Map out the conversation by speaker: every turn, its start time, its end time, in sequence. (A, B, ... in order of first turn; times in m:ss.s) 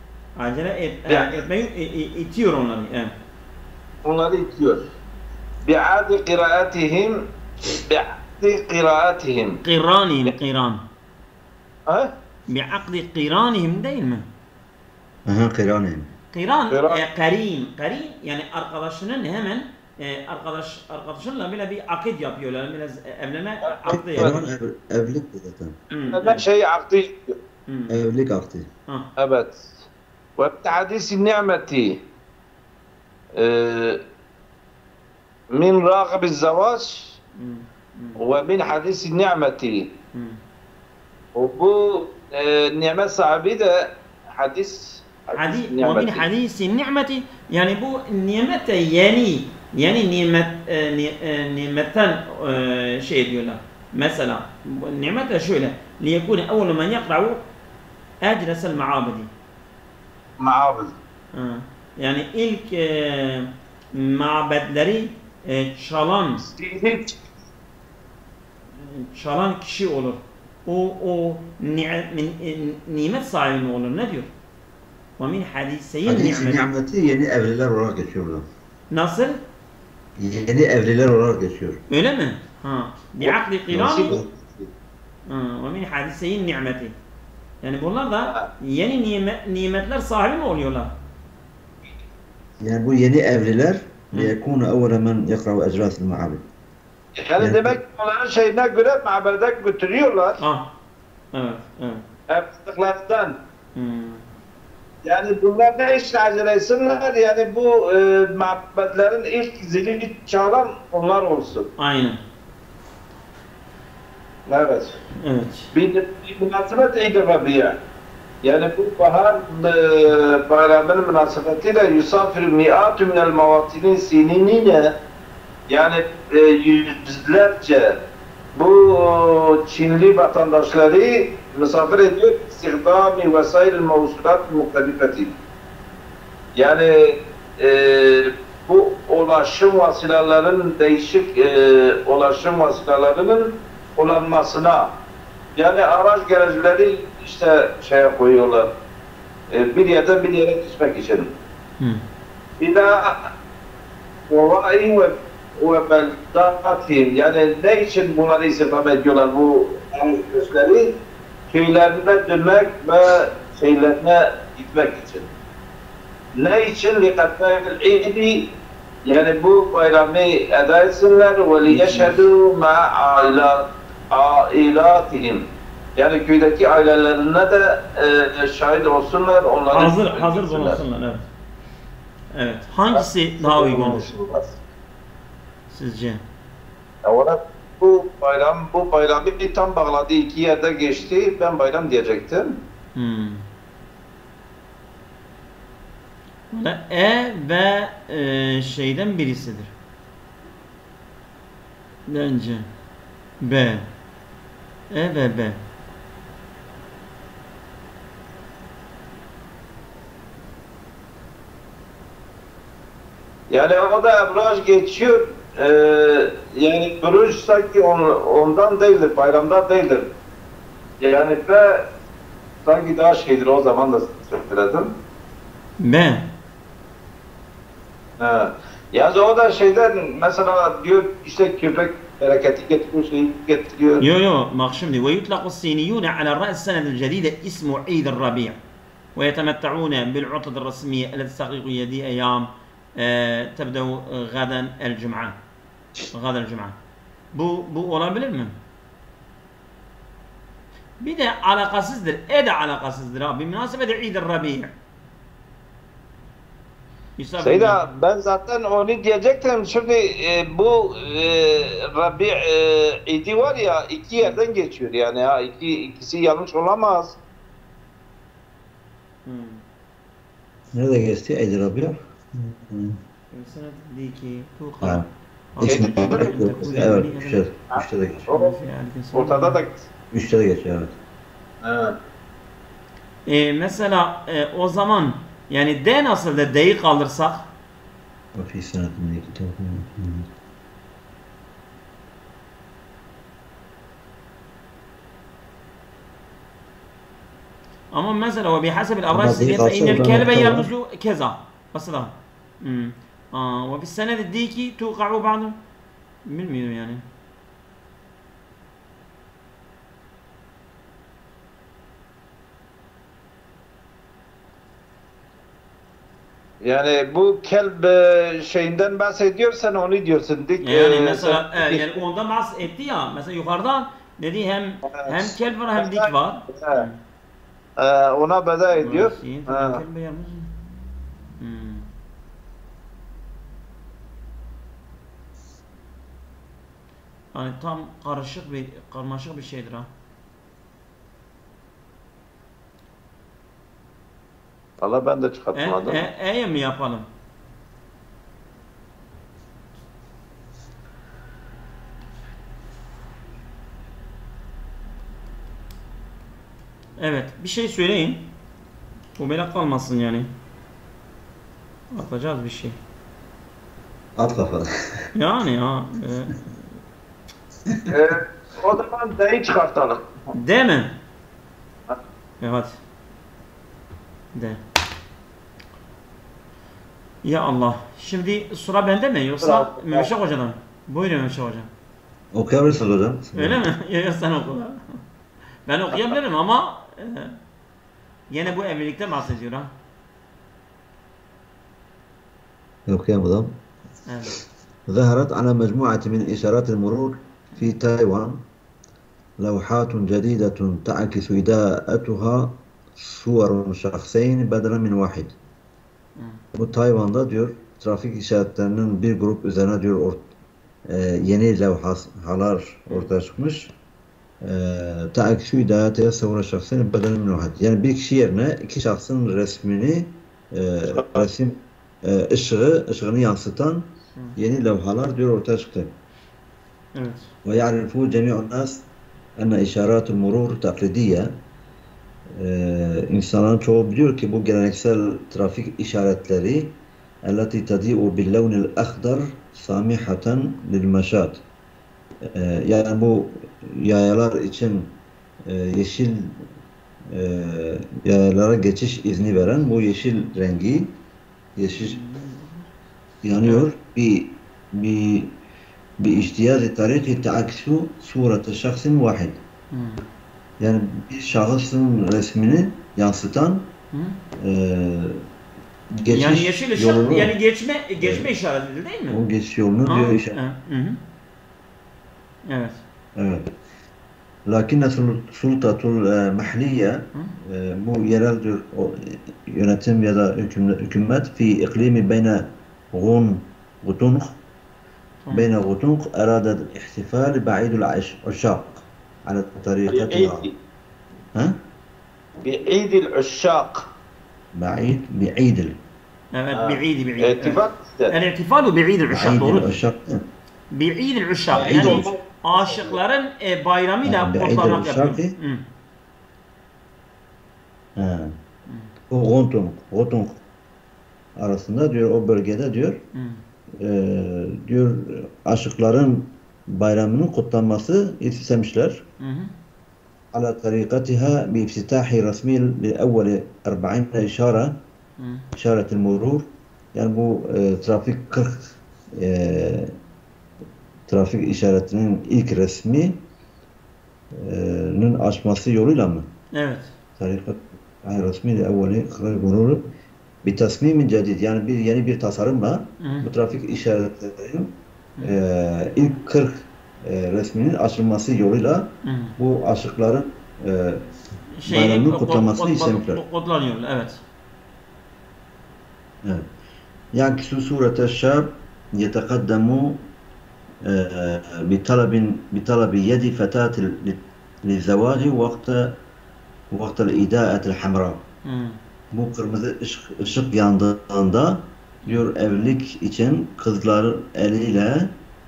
0:00.4-0:03.1 A
0:01.1-0:01.4 B
0:04.0-0:04.8 B
0:05.6-0:07.2 B
0:07.9-0:09.6 B
0:09.6-0:10.8 A
0:12.5-0:14.2 A
0:15.3-0:16.1 C
0:16.3-0:24.4 A
0:16.7-0:17.0 B
0:23.6-0:24.4 B
0:23.9-0:25.8 C
0:25.9-0:26.4 A
0:26.0-0:27.4 B
0:27.7-0:28.0 A
0:27.9-0:28.7 C
0:29.2-0:29.8 B
0:30.4-0:32.0 B
0:33.4-0:34.0 B
0:35.5-0:37.1 B
0:37.4-0:38.2 A
0:38.2-0:39.9 B
0:40.1-0:40.4 A
0:41.4-0:46.2 B
0:45.4-0:57.4 A
0:58.2-0:59.3 A
1:00.4-1:01.0 B
1:01.3-1:06.5 A
1:06.5-1:07.2 B
1:08.8-1:14.3 A
1:15.2-1:16.7 A
1:16.0-1:18.5 C
1:18.9-1:19.4 A
1:20.2-1:21.8 C
1:21.9-1:24.2 A
1:23.2-1:24.7 B
1:23.7-1:24.2 C
1:25.3-1:26.9 A
1:27.6-1:30.9 A
1:32.6-1:36.4 C
1:37.2-1:40.4 B
1:37.4-1:37.8 C
1:40.4-1:40.7 A
1:41.3-1:42.0 A
1:42.3-1:43.3 B
1:43.8-1:44.3 A
1:45.0-1:51.7 B
1:51.8-1:52.2 A
1:54.5-1:55.0 B
1:55.2-1:55.7 A
1:55.7-1:57.8 B
1:58.4-2:04.9 B
2:05.7-2:08.0 B
2:08.5-2:15.3 B
2:16.6-2:24.9 B
2:25.6-2:28.7 B
2:29.5-2:31.3 B
2:32.6-2:33.3 B
2:34.3-2:40.9 B
2:41.5-2:45.3 B
2:46.4-2:48.4 B
2:49.0-2:55.4 B
2:51.7-2:52.2 A
2:56.0-3:00.8 B
2:59.7-3:01.2 A
3:02.3-3:04.1 A
3:02.9-3:04.6 B
3:05.7-3:06.2 A
3:07.0-3:12.6 B
3:13.0-3:13.4 A
3:16.5-3:19.7 A
3:22.1-3:22.7 A
3:23.4-3:23.9 A
3:24.9-3:25.6 A
3:33.5-3:40.1 B
3:41.0-3:41.8 B
3:42.6-3:44.9 B
3:45.8-3:46.3 A
3:48.2-3:54.0 B
3:54.0-3:58.6 A
3:59.2-4:05.4 A
4:06.1-4:06.8 A
4:07.3-4:08.6 A
4:11.0-4:14.7 A
4:17.2-4:17.8 A
4:17.4-4:27.2 B
4:29.2-4:29.6 A
4:30.7-4:33.0 C
4:33.3-4:37.4 A
4:34.8-4:35.1 C
4:35.6-4:38.3 C
4:35.7-4:36.6 B
4:37.7-4:38.5 B
4:38.3-4:39.6 A
4:39.1-4:39.9 B
4:40.1-4:41.0 C
4:41.6-4:41.9 B
4:43.3-4:47.5 A
4:48.4-4:50.3 C
4:57.9-5:05.6 A
4:59.1-5:00.7 C
5:06.3-5:07.0 A
5:16.6-5:22.0 B
5:20.6-5:27.0 A
5:24.9-5:26.8 B
5:27.8-5:29.8 B
5:28.8-5:30.5 A
5:31.4-5:31.9 A
5:37.3-5:39.9 A
5:44.8-5:46.0 B
5:45.6-5:47.1 A
5:57.0-5:58.3 A
5:59.2-6:00.3 A
6:01.9-6:02.8 A
6:04.2-6:04.7 C
6:05.2-6:06.6 A
6:07.9-6:10.1 B
6:10.3-6:10.9 A
6:12.4-6:12.8 A
6:17.2-6:21.7 A
6:19.4-6:20.1 B
6:22.3-6:23.7 C
6:23.4-6:25.0 A
6:25.7-6:27.4 A
6:25.9-6:26.2 B
6:28.3-6:29.7 A
6:32.9-6:33.6 C
6:34.1-6:34.4 A
6:34.9-6:38.4 C
6:39.4-6:45.4 C
6:46.2-6:46.4 A
6:46.5-6:50.3 C
6:50.9-6:53.7 C
6:54.4-7:05.9 C
7:00.9-7:01.3 B
7:07.0-7:07.3 A
7:07.4-7:08.8 C
7:09.4-7:11.4 C
7:12.3-7:16.8 C
7:17.3-7:21.4 C
7:22.2-7:24.9 C
7:25.5-7:26.4 C
7:27.1-7:30.9 C
7:31.6-7:32.0 C
7:31.8-7:32.7 A
7:33.2-7:35.3 C
7:36.0-7:39.4 C
7:39.7-7:40.0 A
7:40.6-7:43.7 C
7:43.9-7:44.2 A
7:44.4-7:45.2 C
7:46.0-7:47.3 C
7:46.1-7:49.2 A
7:48.0-7:48.3 C
7:49.1-7:50.4 C
7:49.9-7:51.0 A
7:52.5-7:52.8 A
7:53.2-7:53.5 C
7:54.5-8:04.4 C
8:05.3-8:10.5 C
8:09.9-8:10.5 B
8:12.4-8:13.9 B
8:14.6-8:15.8 C
8:16.3-8:17.6 A
8:16.5-8:18.1 B
8:18.1-8:19.7 A
8:19.1-8:20.2 C
8:20.7-8:25.6 A
8:21.5-8:23.0 B
8:21.5-8:22.1 C
8:24.0-8:25.4 C
8:28.0-8:28.3 C
8:28.7-8:28.9 A
8:29.1-8:30.4 C
8:31.4-8:33.0 C
8:33.1-8:33.4 A
8:33.8-8:39.0 C
8:39.2-8:39.5 A
8:40.3-8:44.8 C
8:45.2-8:45.5 A
8:45.5-8:49.9 C
8:51.1-8:53.2 C
8:54.3-8:56.3 C
8:56.6-8:56.9 A
8:57.2-8:59.8 C
9:00.4-9:11.1 C
9:03.0-9:03.3 A
9:09.0-9:09.4 A
9:11.6-9:14.2 A
9:11.7-9:13.2 C
9:17.2-9:20.0 C
9:20.8-9:26.0 C
9:26.7-9:28.2 C
9:28.4-9:28.8 A
9:29.1-9:35.1 C